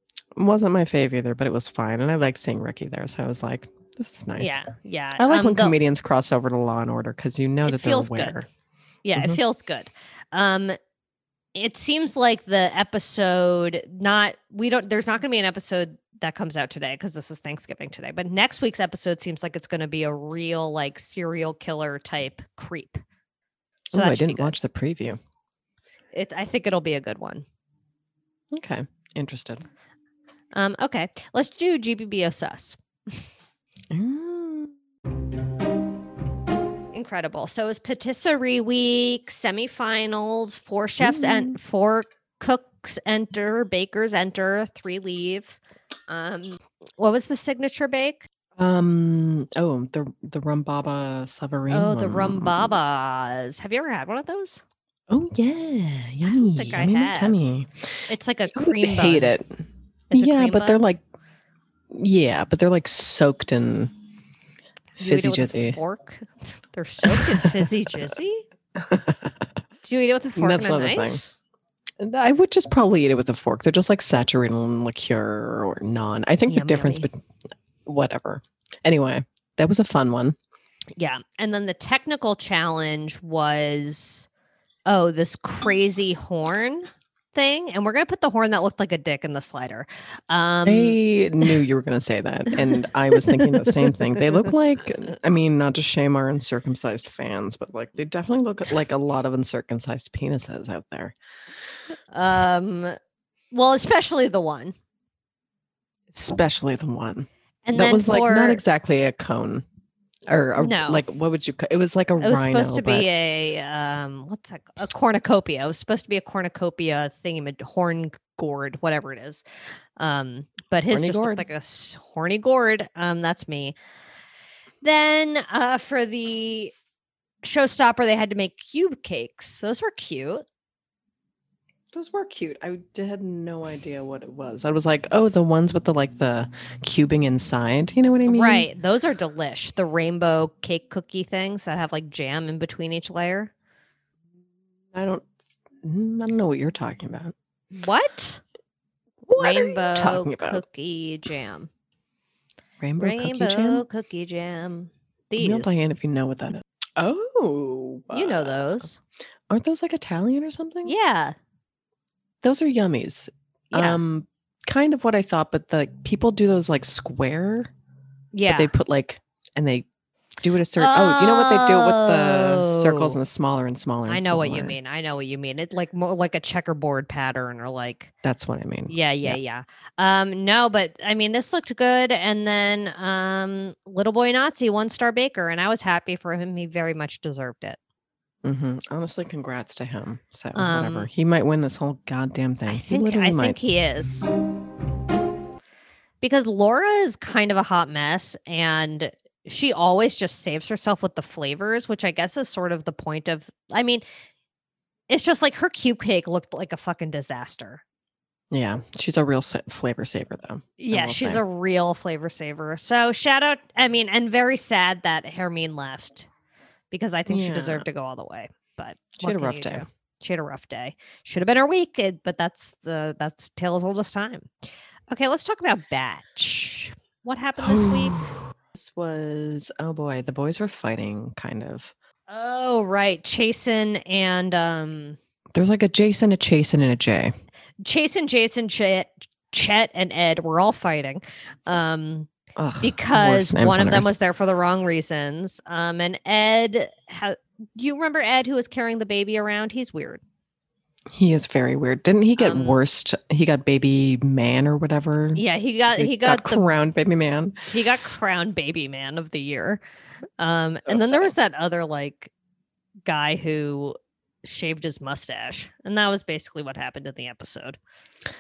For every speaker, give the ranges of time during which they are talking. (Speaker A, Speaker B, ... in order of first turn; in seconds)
Speaker A: 0.3-4.6, 5.2-8.5, 23.9-25.2, 28.5-29.6, 33.9-34.7, 41.0-41.6, 48.6-52.8, 55.1-57.7, 58.5-59.6, 60.1-61.0, 61.9-63.9, 65.0-65.8, 67.0-68.0, 68.8-69.4, 70.4-71.2, 72.0-77.2, 77.9-80.4, 90.7-101.2, 106.1-109.7, 110.3-113.1, 120.9-121.5, 131.9-138.7, 144.9-145.3, 145.8-147.3, 149.2-150.6, 152.8-153.8, 155.4-158.9, 159.5-161.0, 162.4-167.7, 168.5-169.9, 170.4-174.8, 178.2-179.4, 188.4-193.6, 208.5-211.4, 217.3-217.9, 219.2-219.9, 227.6-231.9, 235.5-237.3, 242.6-244.1, 251.1-257.6, 260.9-261.3
Speaker B: 4.4-5.8, 7.7-8.4, 9.0-10.8, 11.6-23.0, 23.9-24.6, 26.1-27.5, 30.5-33.2, 36.9-48.3, 51.7-54.6, 56.3-57.4, 58.1-59.4, 60.1-60.9, 65.0-68.5, 69.8-71.2, 76.5-77.1, 81.0-84.3, 84.9-91.0, 93.1-94.1, 102.1-103.0, 103.5-104.8, 107.6-108.6, 110.6-111.0, 112.2-119.4, 120.0-123.8, 124.8-126.7, 127.4-130.4, 138.3-143.5, 147.7-148.4, 149.3-151.7, 153.0-155.9, 158.1-159.0, 160.8-161.4, 163.7-164.0, 168.3-168.8, 170.8-173.2, 174.1-178.1, 178.9-187.8, 190.6-191.1, 192.7-194.3, 196.2-204.0, 205.1-207.8, 210.8-216.3, 216.9-224.5, 225.1-228.2, 232.3-235.2, 237.8-242.3, 242.8-250.2, 252.4-252.8, 255.3-256.7, 257.7-259.8, 260.4-262.3, 263.1-267.8